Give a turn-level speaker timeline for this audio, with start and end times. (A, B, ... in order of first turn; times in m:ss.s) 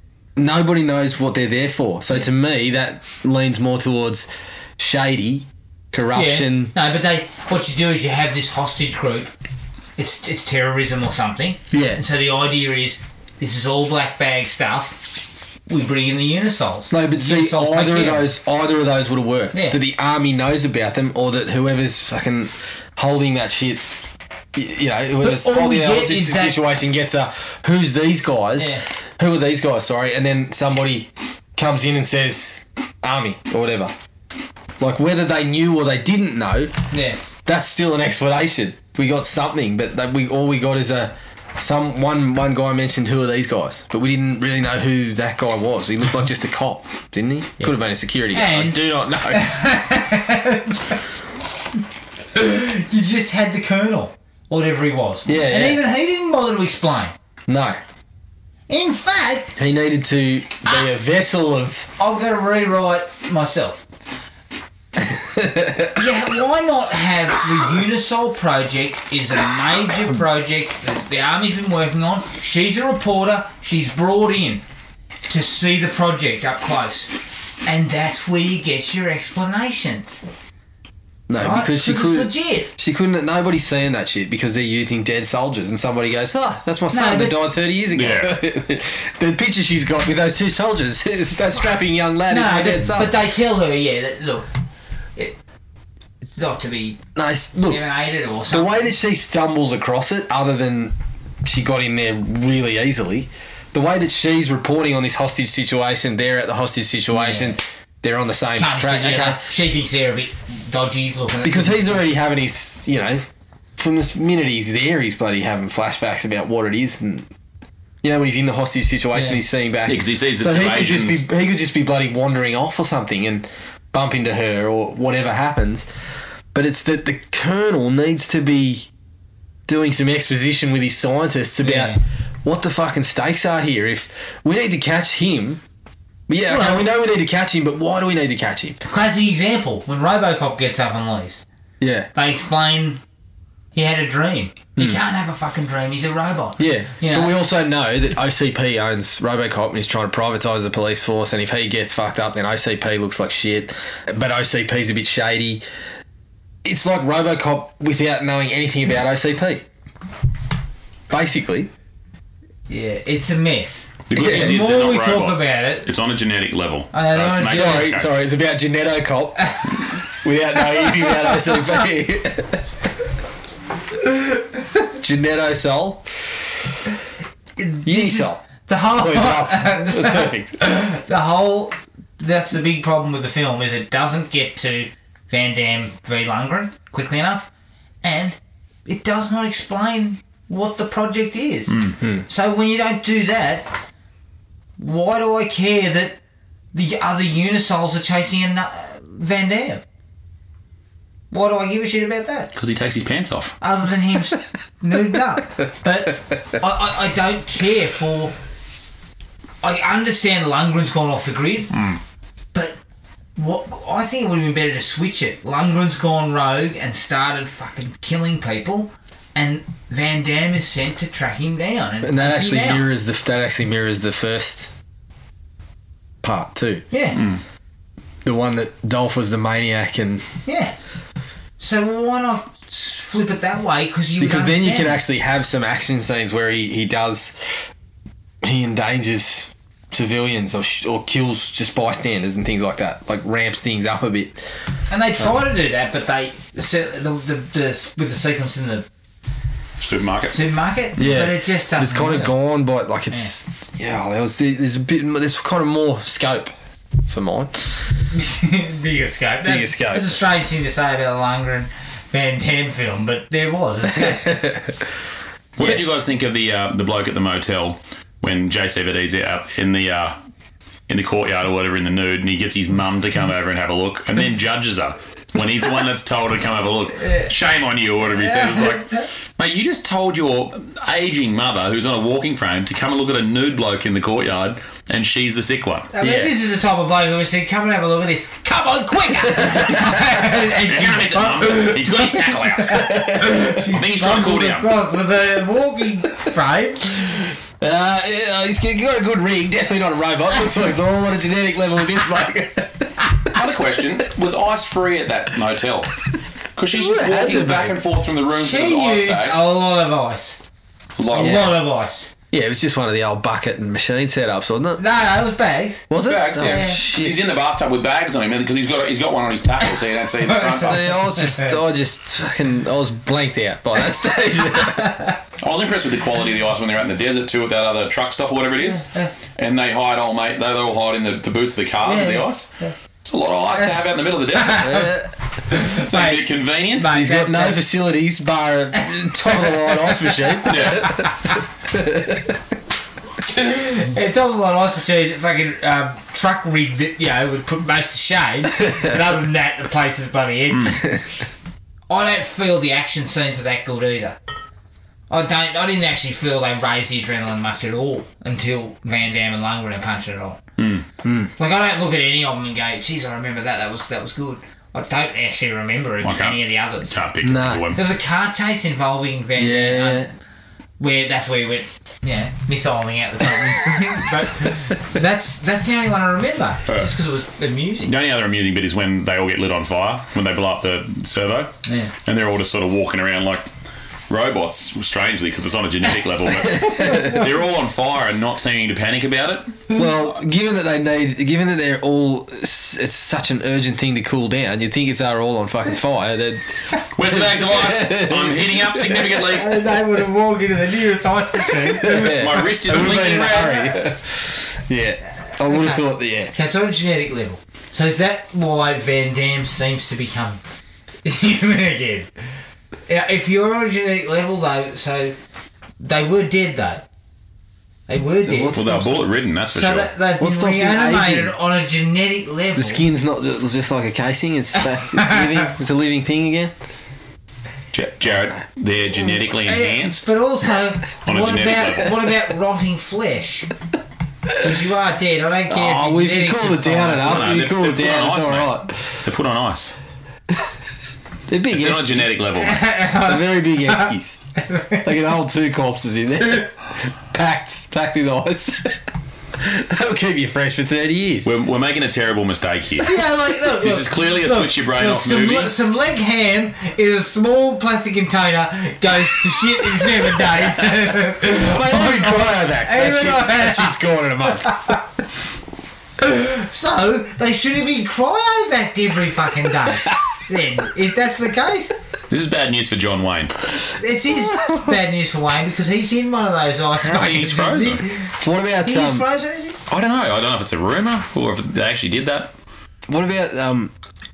0:00.4-0:06.7 A
0:06.1-0:09.3 B
0:10.0-0:15.1 B
0:11.7-0:12.0 A
0:15.7-0:18.3 B
0:16.9-0:33.9 A
0:19.5-0:19.8 B
0:25.2-0:26.6 B
0:28.6-0:28.8 B
0:34.8-0:36.7 A
0:36.9-0:37.2 B
0:37.4-0:49.5 A
0:48.3-0:51.0 B
0:52.3-0:57.1 B
0:55.3-0:55.8 A
0:57.5-0:57.8 A
0:58.7-0:59.6 B
0:59.6-1:01.9 A
1:02.0-1:03.8 B
1:05.0-1:05.9 A
1:05.9-1:14.6 B
1:15.3-1:17.1 B
1:17.6-1:20.2 B
1:21.3-1:33.2 A
1:21.4-1:22.7 B
1:26.9-1:27.4 B
1:27.9-1:28.3 C
1:32.3-1:34.5 B
1:36.2-1:37.0 B
1:37.1-1:37.8 A
1:37.6-1:39.0 B
1:38.5-1:49.4 A
1:47.1-1:47.6 B
1:48.6-1:52.0 B
1:51.4-1:53.2 A
1:53.8-1:57.3 A
1:58.0-2:05.9 A
1:59.1-1:59.4 B
1:59.9-2:01.2 C
2:06.5-2:08.9 A
2:09.7-2:15.6 A
2:11.6-2:12.0 B
2:16.3-2:18.8 A
2:16.5-2:16.9 B
2:18.9-2:21.4 B
2:21.8-2:22.1 A
2:22.1-2:23.0 B
2:23.7-2:27.3 B
2:26.6-2:35.6 A
2:36.6-2:39.6 A
2:41.1-2:41.7 A
2:42.7-2:45.9 B
2:44.1-2:48.1 C
2:44.1-2:44.6 A
2:46.9-2:47.9 B
2:47.5-2:49.6 A
2:50.2-2:52.6 A
2:51.0-2:51.5 B
2:55.0-2:56.0 A
2:57.6-3:07.5 B
2:57.8-2:58.4 A
2:58.9-3:00.6 A
3:08.0-3:11.7 B
3:11.7-3:12.0 C
3:12.3-3:13.7 B
3:14.8-3:16.2 B
3:16.7-3:19.8 B
3:21.3-3:22.5 B
3:22.5-3:23.5 C
3:23.6-3:28.3 B
3:29.6-3:31.7 B
3:31.7-3:32.0 C
3:33.4-3:42.9 B
3:42.0-3:44.7 A
3:46.2-3:46.8 A
3:46.9-3:47.2 B
3:47.1-3:47.4 C
3:48.2-3:50.3 A
3:50.4-3:50.8 B
3:51.6-3:55.0 B
3:54.2-3:57.4 A
3:58.4-4:04.4 A
4:04.9-4:08.8 B
4:09.8-4:10.4 C
4:10.3-4:12.4 B
4:11.0-4:16.5 A
4:17.1-4:17.7 A
4:18.1-4:24.4 B
4:19.4-4:20.2 A
4:24.1-4:24.7 A
4:25.6-4:30.2 C
4:30.9-4:45.9 C
4:38.2-4:39.0 B
4:45.9-4:57.2 B
4:46.0-4:46.3 A
4:49.3-4:49.9 A
4:50.6-4:53.0 C
4:52.7-4:53.5 A
4:53.6-4:54.7 C
4:57.6-5:02.9 A
5:03.3-5:05.9 C
5:06.6-5:09.4 C
5:06.7-5:07.8 A
5:08.3-5:10.4 B
5:11.0-5:11.6 C
5:11.1-5:12.1 B
5:11.1-5:11.5 A
5:12.3-5:14.8 A
5:14.8-5:15.9 B
5:15.9-5:17.2 A
5:16.0-5:20.8 C
5:16.4-5:16.8 B
5:20.2-5:21.5 B
5:20.6-5:25.0 A
5:24.6-5:25.1 B
5:25.4-5:32.5 C
5:28.7-5:29.1 B
5:31.8-5:32.7 B
5:33.0-5:34.9 C
5:34.4-5:34.9 B
5:34.6-5:35.1 A
5:35.5-5:37.6 B
5:35.7-5:37.1 C
5:36.9-5:41.1 A
5:38.8-5:40.5 B
5:40.4-5:41.1 C
5:41.7-5:42.4 A
5:43.3-5:50.8 B
5:50.5-5:50.8 C
5:51.9-5:54.2 B
5:55.1-6:00.4 B
6:00.6-6:00.8 C
6:01.0-6:01.3 A
6:01.4-6:06.9 B
6:06.0-6:07.8 C
6:07.2-6:07.7 A
6:07.7-6:10.1 B
6:09.4-6:10.1 A
6:10.8-6:17.9 B
6:17.8-6:23.5 C
6:21.6-6:21.9 B
6:24.1-6:29.6 C
6:26.6-6:27.0 A
6:29.7-6:36.4 A
6:37.0-6:39.6 C
6:37.0-6:39.9 A
6:39.3-6:43.4 B
6:41.5-6:46.3 A
6:42.0-6:43.7 C
6:45.4-6:50.4 B
6:51.0-6:52.1 B
6:52.9-6:55.2 B
6:55.8-6:56.8 B
6:57.9-6:58.6 B
6:58.2-6:59.1 A
6:58.5-6:59.9 C
6:59.5-7:02.8 B
7:00.2-7:01.3 A
7:02.5-7:06.5 A
7:05.0-7:05.2 B
7:07.7-7:10.1 C
7:09.3-7:13.5 B
7:11.0-7:12.1 C
7:14.3-7:17.4 B
7:15.5-7:19.0 A
7:17.0-7:19.7 C
7:21.3-7:22.1 A
7:21.5-7:22.7 C
7:22.4-7:23.9 B
7:22.9-7:24.2 A
7:24.4-7:24.8 B
7:24.8-7:28.8 A
7:29.4-7:31.3 A
7:31.2-7:35.5 C
7:32.8-7:43.8 B
7:41.2-7:44.8 A
7:44.4-7:44.8 B
7:46.0-7:51.7 B
7:52.1-7:53.3 C
7:53.8-7:58.1 B
7:54.4-7:54.7 A
7:56.8-7:57.8 C
7:58.2-7:59.0 A
7:58.6-7:59.6 B
7:59.7-8:02.3 C
8:02.9-8:03.7 A